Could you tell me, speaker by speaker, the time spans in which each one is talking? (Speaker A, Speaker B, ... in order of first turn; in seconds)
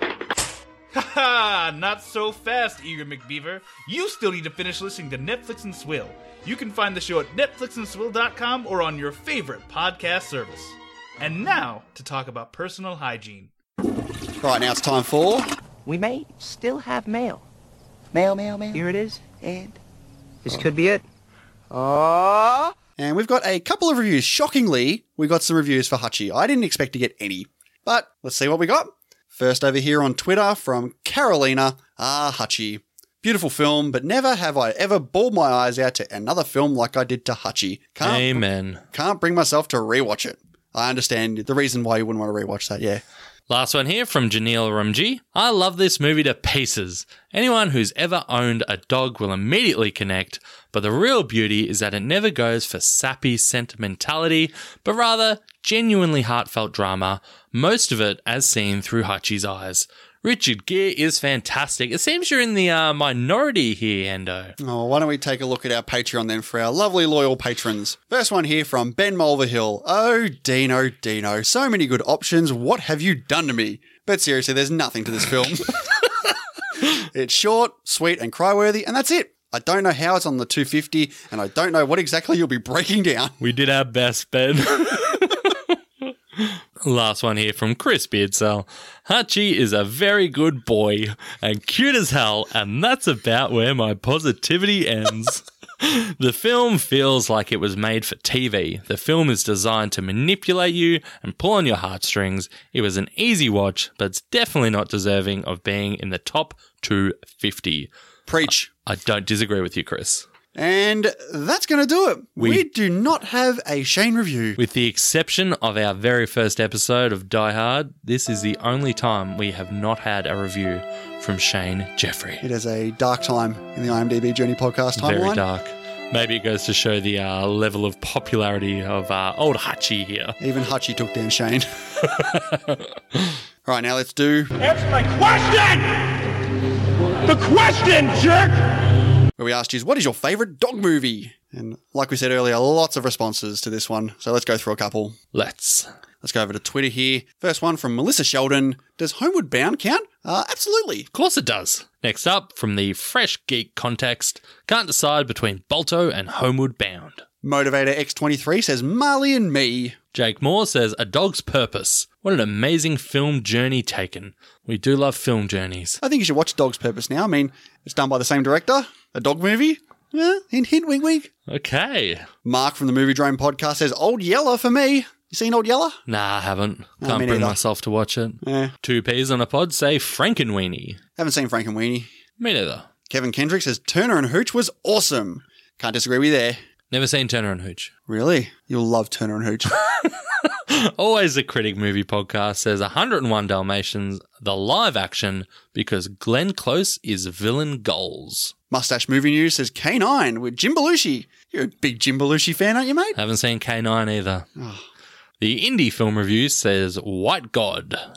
Speaker A: 0.9-13.5
Speaker B: 14.4-15.5, 23.0-43.0, 64.6-75.9, 77.0-83.3, 108.3-108.7, 110.5-114.6, 122.4-125.4, 130.4-131.7, 133.6-134.5, 139.4-145.2, 146.2-151.1, 157.4-159.9, 166.0-171.3, 172.4-176.0, 177.0-177.6, 178.4-178.7, 181.2-182.1, 183.1-186.6, 188.1-189.7, 198.7-203.2, 204.6-204.8
Speaker C: 15.8-17.4, 18.1-19.8, 20.4-21.0, 21.7-22.7
Speaker D: 38.0-38.8, 43.5-64.5, 83.4-85.5, 86.4-107.9, 108.8-110.2, 112.4-112.6, 114.6-122.4, 125.0-130.4, 132.2-132.8, 145.3-145.9, 151.1-157.2, 160.1-166.0, 171.5-172.3, 176.1-181.0, 182.4-182.9, 186.9-187.9, 190.7-198.5, 203.2-204.4, 205.4-208.0
Speaker E: 134.7-135.8, 137.3-138.4